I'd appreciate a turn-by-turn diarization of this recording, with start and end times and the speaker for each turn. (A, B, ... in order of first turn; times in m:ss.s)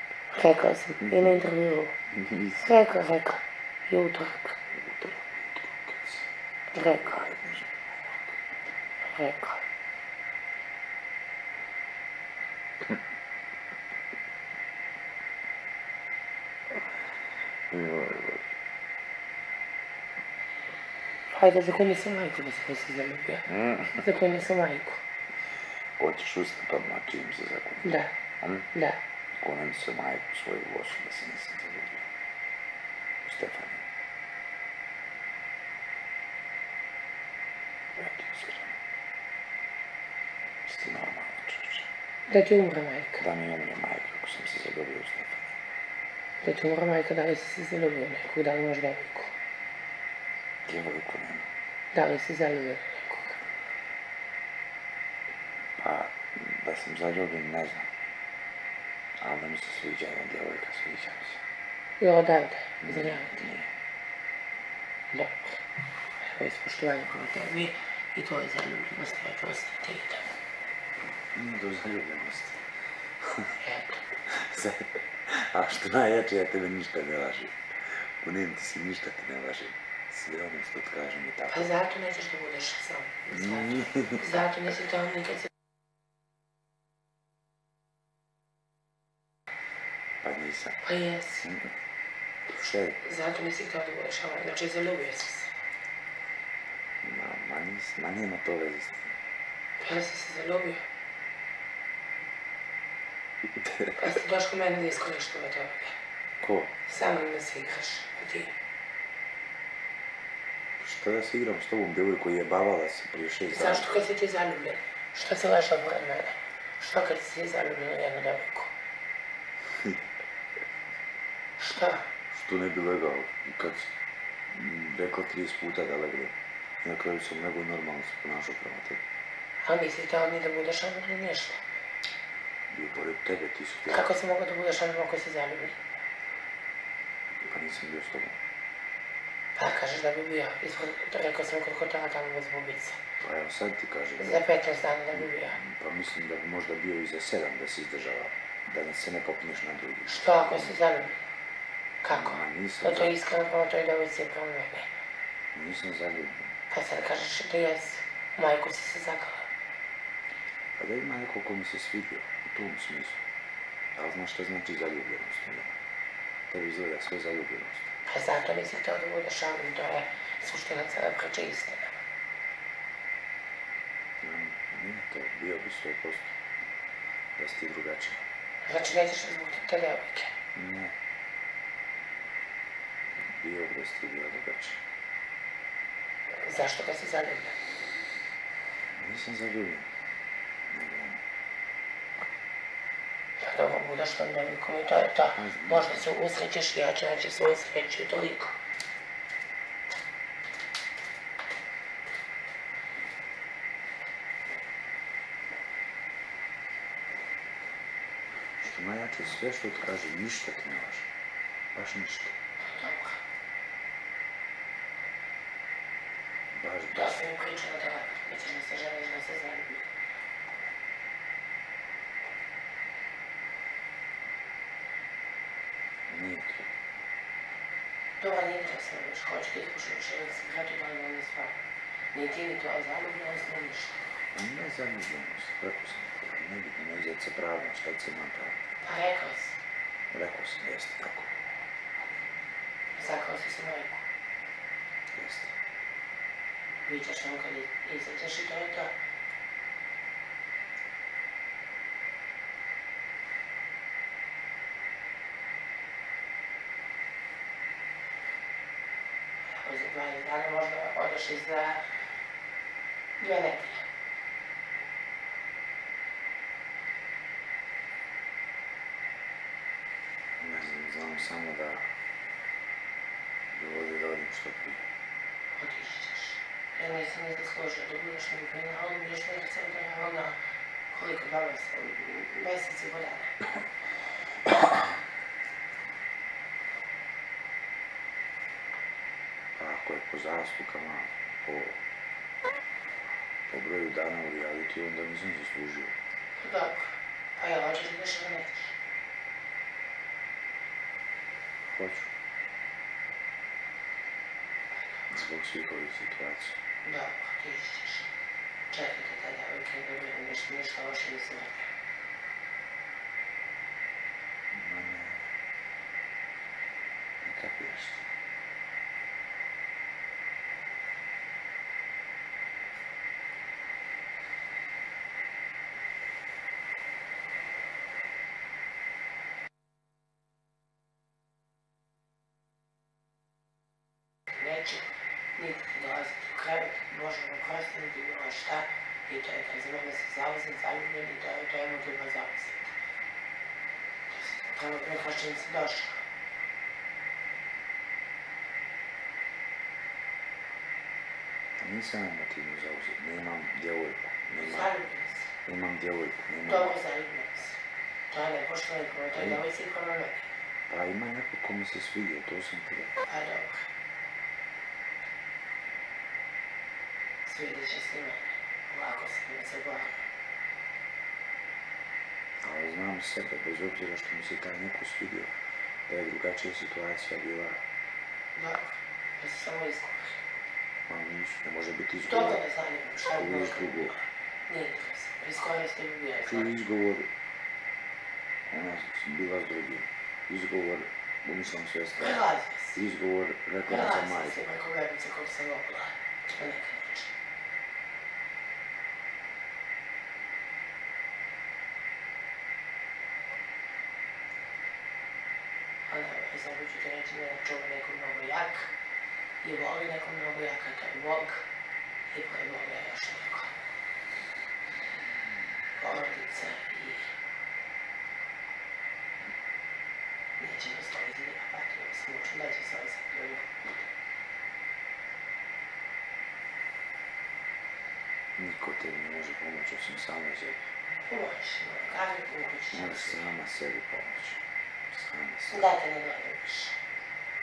0:00.3-0:02.0 A
0:02.1-0:02.7 B
0:02.6-0:04.6 A
0:04.7-0:08.4 B
0:06.7-0:07.3 A
0:09.0-0:09.6 A
0:17.7-0:18.5 B
0:21.3-0:25.0 A
0:23.5-0:24.0 B
0:26.0-0:28.7 B
0:27.8-0:28.1 A
0:28.7-0:29.0 A
0:29.4-0:32.1 B
0:33.2-0:33.9 B
0:38.0-0:38.8 B
0:40.6-0:41.9 B
0:42.3-0:43.2 A
0:43.2-0:45.5 B
0:46.4-0:49.3 A
0:50.6-0:51.5 B
0:51.9-0:53.4 A
0:55.8-0:57.9 B
0:59.2-1:01.4 B
1:02.0-1:03.4 A
1:02.8-1:03.7 B
1:05.1-1:05.6 A
1:06.2-1:10.3 A
1:11.3-1:12.6 B
1:13.2-1:13.6 B
1:13.6-1:14.0 A
1:14.2-1:21.7 B
1:21.5-1:25.5 A
1:23.3-1:24.2 B
1:30.2-1:30.8 B
1:30.8-1:31.5 A
1:31.4-1:31.7 B
1:32.5-1:33.0 B
1:33.0-1:35.5 A
1:37.0-1:39.2 B
1:39.8-1:40.9 A
1:43.6-1:44.0 B
1:44.0-1:46.0 A
1:46.4-1:46.7 B
1:46.9-1:48.6 A
1:50.8-1:54.0 B
1:53.5-1:58.7 A
2:01.6-2:02.1 A
2:02.3-2:03.9 B
2:04.5-2:09.0 B
2:09.6-2:11.6 A
2:12.7-2:14.1 B
2:13.9-2:15.9 A
2:17.4-2:18.4 B
2:19.6-2:23.0 A
2:23.2-2:24.5 B
2:24.2-2:25.6 A
2:25.2-2:30.8 B
2:30.1-2:31.2 A
2:32.0-2:34.9 A
2:32.1-2:33.2 B
2:35.5-2:36.6 B
2:36.7-2:39.5 A
2:40.7-2:43.2 B
2:44.0-2:45.8 B
2:46.5-2:47.9 B
2:48.1-2:52.0 A
2:54.2-2:56.4 B
2:57.4-2:58.2 B
2:58.6-3:00.3 A
3:00.6-3:01.0 B
3:03.2-3:04.8 B
3:06.4-3:07.6 A
3:08.9-3:09.9 B
3:10.7-3:11.2 B
3:13.4-3:18.6 A
3:15.4-3:16.1 B
3:28.6-3:31.1 B
3:31.7-3:32.4 B
3:32.7-3:33.2 A
3:36.5-3:37.2 B
3:36.9-3:39.9 A
3:46.1-3:46.7 B
3:48.2-3:51.6 A
3:52.1-3:54.1 A
3:54.3-3:58.7 B
3:58.8-3:59.6 A
4:00.1-4:01.4 B
4:03.0-4:04.1 A
4:05.1-4:05.6 B
4:06.8-4:08.9 A
4:19.4-4:22.1 A
4:23.2-4:23.8 A
4:30.4-4:32.0 B
4:33.5-4:34.9 B
4:35.6-4:40.4 A
4:40.9-4:43.4 A
4:49.6-4:51.8 B
4:53.5-4:56.0 B
4:56.4-4:58.8 A
5:01.6-5:02.1 B
5:05.1-5:06.6 B
5:06.8-5:08.1 A
5:08.7-5:11.7 A
5:14.5-5:15.3 B
5:17.2-5:18.1 B
5:34.3-5:42.7 A
5:44.1-5:46.0 A
5:51.6-5:54.7 B
5:54.4-5:55.3 A
5:55.4-5:56.8 B
5:56.4-6:00.3 A
5:59.1-5:59.4 B
6:00.7-6:02.9 B
6:03.0-6:03.7 A
6:07.2-6:10.1 A
6:12.4-6:17.6 B
6:18.4-6:20.3 A
6:20.9-6:22.4 B
6:22.1-6:26.5 A
6:23.1-6:24.0 B
6:26.2-6:27.1 B
6:28.5-6:34.4 B
6:32.0-6:32.8 A
6:33.6-6:37.1 A
6:45.9-6:48.7 A
6:49.4-6:51.5 A
6:52.1-6:53.5 A
6:55.8-6:57.1 A
7:00.4-7:03.7 A
7:08.4-7:10.7 B
7:11.0-7:13.3 A
7:12.7-7:15.7 B
7:15.5-7:16.8 A